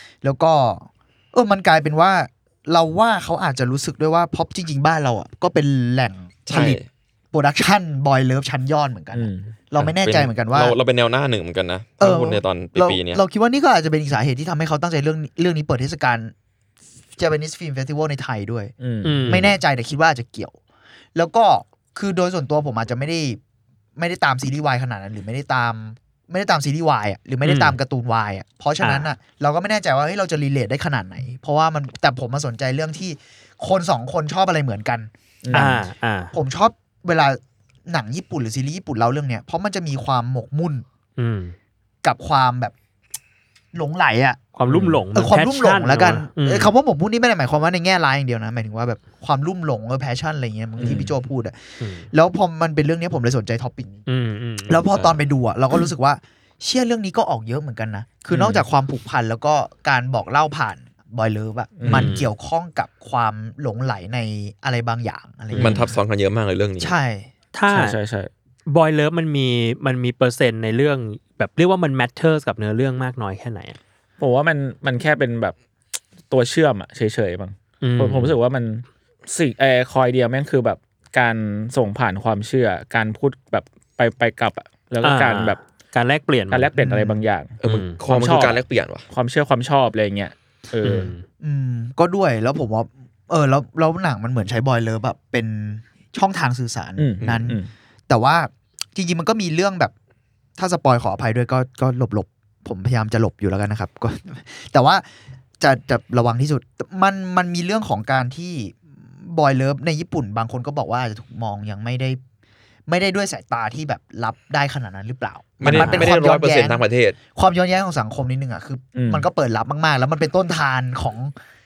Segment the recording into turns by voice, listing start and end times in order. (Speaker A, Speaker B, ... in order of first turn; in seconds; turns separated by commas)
Speaker A: 0.2-6.8, Speaker B: 6.5-6.9, Speaker A: 7.3-10.8, Speaker C: 9.1-9.5, Speaker B: 9.8-13.2, Speaker A: 12.0-16.3, Speaker A: 17.2-18.7, Speaker C: 18.8-19.5, Speaker D: 19.0-19.5, Speaker A: 19.3-20.6, Speaker A: 21.1-23.4, Speaker A: 24.0-40.9, Speaker D: 27.4-27.8, Speaker D: 28.8-29.1, Speaker C: 35.4-35.8, Speaker D: 35.5-36.3, Speaker D: 41.2-41.5, Speaker A: 42.0-42.7, Speaker A: 43.7-44.4, Speaker D: 44.5-46.7, Speaker C: 44.7-45.0, Speaker A: 45.1-51.6, Speaker C: 50.8-51.1, Speaker D: 51.8-52.1, Speaker A: 52.1-54.0, Speaker D: 54.1-55.2, Speaker A: 54.7-65.9, Speaker D: 58.3-58.6, Speaker C: 61.8-62.1, Speaker D: 61.9-62.3, Speaker D: 65.5-65.8, Speaker B: 65.6-67.0, Speaker A: 66.8-67.3, Speaker D: 67.5-68.0, Speaker C: 67.7-68.3, Speaker D: 68.7-73.8, Speaker C: 74.2-75.5, Speaker C: 76.3-85.6, Speaker D: 77.8-78.4, Speaker D: 85.0-86.7, Speaker C: 86.5-91.1, Speaker A: 86.8-87.2, Speaker B: 87.6-89.1, Speaker D: 87.6-88.0, Speaker D: 90.8-91.2, Speaker A: 91.4-99.9, Speaker C: 97.0-97.7, Speaker B: 97.2-97.5, Speaker A: 100.6-105.0, Speaker A: 105.6-112.2, Speaker A: 112.9-121.3, Speaker B: 115.6-117.2, Speaker C: 115.6-116.1, Speaker C: 119.0-119.3